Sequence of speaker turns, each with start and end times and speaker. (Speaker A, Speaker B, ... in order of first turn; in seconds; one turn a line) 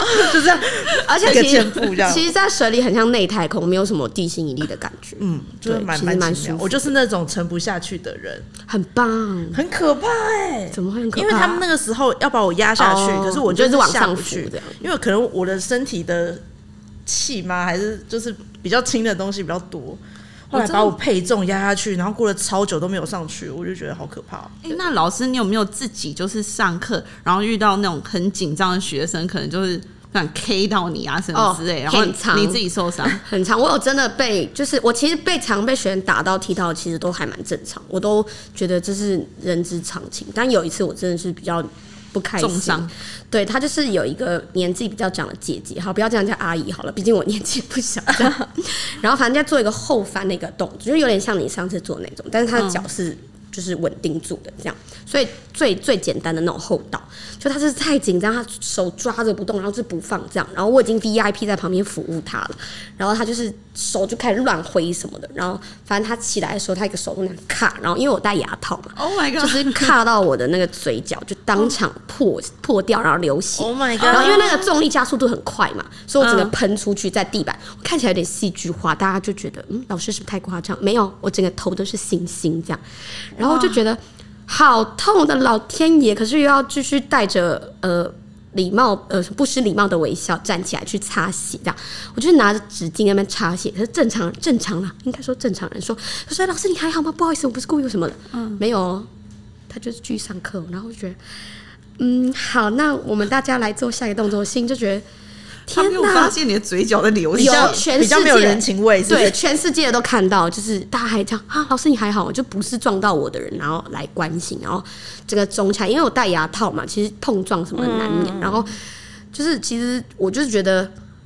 Speaker A: 0.1-2.3
Speaker B: 1.1-6.7
Speaker A: 5.2-8.5
Speaker B: 8.7-9.6
Speaker A: 9.5-16.4
Speaker B: 10.8-11.6
Speaker B: 12.8-14.7
Speaker A: 17.1-24.7
Speaker C: 20.5-20.9
Speaker C: 24.6-33.2
Speaker B: 31.4-82.8
Speaker C: 42.4-42.9
Speaker C: 52.5-52.8
Speaker C: 69.0-69.9
Speaker A: 73.6-74.5
Speaker C: 74.0-74.6
Speaker C: 76.2-76.6
Speaker B: 83.4-99.1
Speaker C: 83.4-83.8
Speaker C: 98.3-98.6
Speaker B: 99.7-101.2
Speaker B: 102.0-105.0
Speaker B: 105.7-106.4
Speaker C: 105.7-107.8
Speaker A: 107.3-109.4
Speaker B: 107.4-118.8
Speaker A: 117.8-118.8
Speaker B: 119.3-120.9